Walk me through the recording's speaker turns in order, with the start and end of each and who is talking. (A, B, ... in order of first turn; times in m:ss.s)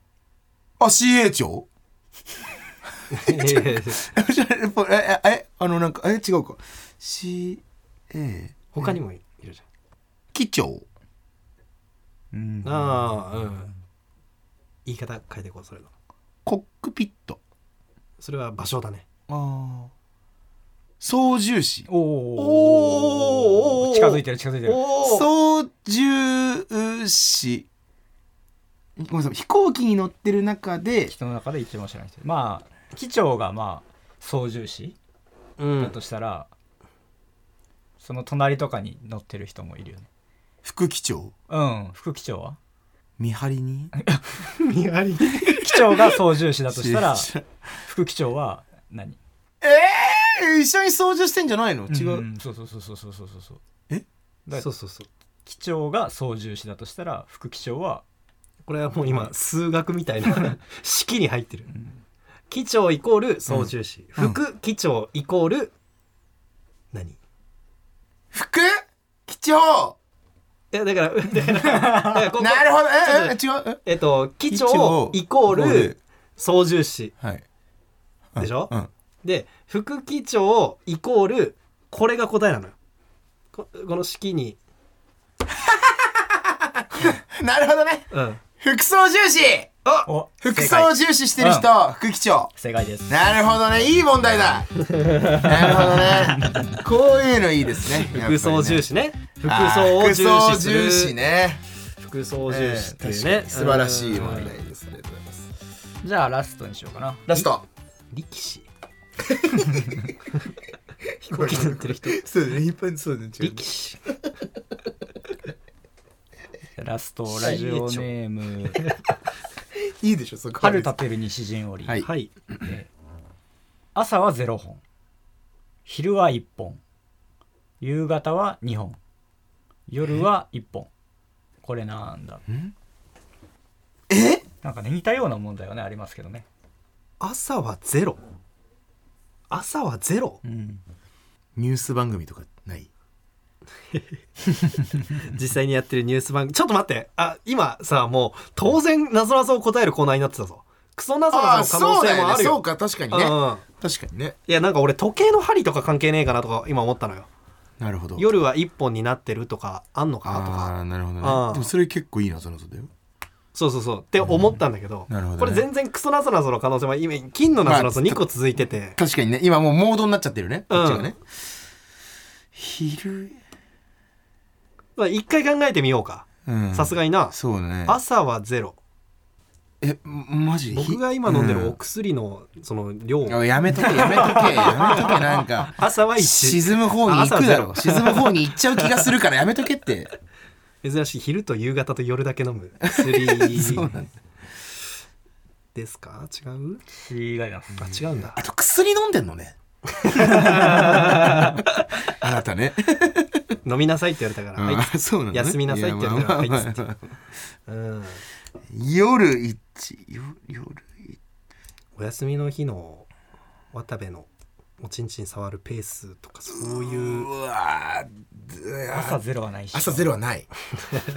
0:00.8-0:01.7 A
0:03.1-0:04.0 B
0:03.1-0:09.0 A
0:08.7-0:09.6 B
0:10.3-0:10.8 A
0:12.3-0:13.7 C
0:12.6-0:13.7 B
0:14.8-0:15.9 B
0:16.4-0:17.4 A
0:18.2-0:19.0 B
0:19.3-0:19.9 A
0:21.0-0:21.9 A
0:21.9-0:24.8 C
0:22.4-0:25.3 B
0:25.0-0:27.7 A
0:29.0-0:31.1 A
0:31.1-0:35.0 C
0:35.6-0:35.9 B
0:35.8-0:36.5 C
0:38.0-0:40.1 C
0:40.6-0:41.3 A
0:41.5-0:42.6 C
0:43.2-0:43.9 A
0:44.0-0:44.4 C
0:44.5-0:45.8 B
0:45.4-0:47.3 C
0:46.7-0:47.4 A
0:47.8-0:49.2 C
0:49.6-0:52.2 A
0:51.9-0:53.6 C
0:54.5-0:55.1 B
0:55.4-0:58.0 C
0:58.6-1:01.7 B
1:02.5-1:05.7 B
1:06.9-1:07.2 B
1:08.3-1:10.0 A
1:10.7-1:17.1 B
1:12.3-1:13.8 A
1:14.5-1:16.0 A
1:18.3-1:18.9 A
1:18.4-1:22.7 B
1:23.5-1:24.6 B
1:25.5-1:29.7 A
1:28.1-1:28.4 B
1:30.1-1:31.7 C
1:30.4-1:32.5 A
1:32.6-1:33.2 C
1:33.1-1:34.8 A
1:35.0-1:36.1 B
1:35.3-1:38.9 A
1:35.9-1:36.7 C
1:38.1-1:41.1 B
1:39.4-1:41.6 A
1:42.0-1:44.5 B
1:42.5-1:45.5 A
1:46.0-1:47.2 C
1:47.3-1:47.6 A
1:48.1-1:48.7 B
1:49.3-1:50.0 A
1:51.2-1:52.2 B
1:51.2-1:53.6 A
1:53.4-1:54.0 B
1:56.8-1:58.9 C
1:57.3-1:58.1 B
1:59.9-2:00.9 A
2:00.6-2:02.1 C
2:02.0-2:02.3 B
2:02.6-2:02.9 C
2:03.9-2:04.8 C
2:05.8-2:06.8 C
2:07.8-2:09.0 C
2:09.9-2:10.9 C
2:11.6-2:12.4 C
2:14.1-2:14.4 A
2:14.6-2:16.4 C
2:17.2-2:18.2 B
2:19.5-2:20.4 B
2:20.4-2:20.8 C
2:21.6-2:22.9 A
2:25.2-2:33.6 B
2:31.3-2:34.4 A
2:34.5-2:37.3 B
2:37.8-2:38.2 A
2:38.2-2:41.7 B
2:40.2-2:42.9 A
2:43.5-2:49.0 B
2:45.1-2:45.6 A
2:47.6-2:48.2 A
2:48.9-2:51.2 A
2:50.7-2:51.1 B
2:52.5-2:53.4 A
2:55.0-2:58.8 B
2:56.4-2:58.0 A
2:59.8-3:01.8 A
3:00.7-3:08.8 B
3:03.3-3:10.1 A
3:10.8-3:13.9 B
3:12.8-3:14.1 A
3:15.7-3:16.8 B
3:16.9-3:17.9 C
3:17.8-3:18.4 B
3:18.4-3:19.6 A
3:19.9-3:21.6 B
3:20.2-3:21.0 A
3:22.1-3:23.4 A
3:23.6-3:26.8 B
3:24.6-3:27.1 A
3:27.7-3:28.2 B
3:28.7-3:31.2 A
3:32.0-3:33.1 B
3:33.7-3:37.3 B
3:36.6-3:39.2 A
3:38.9-3:40.1 C
3:39.7-3:40.5 A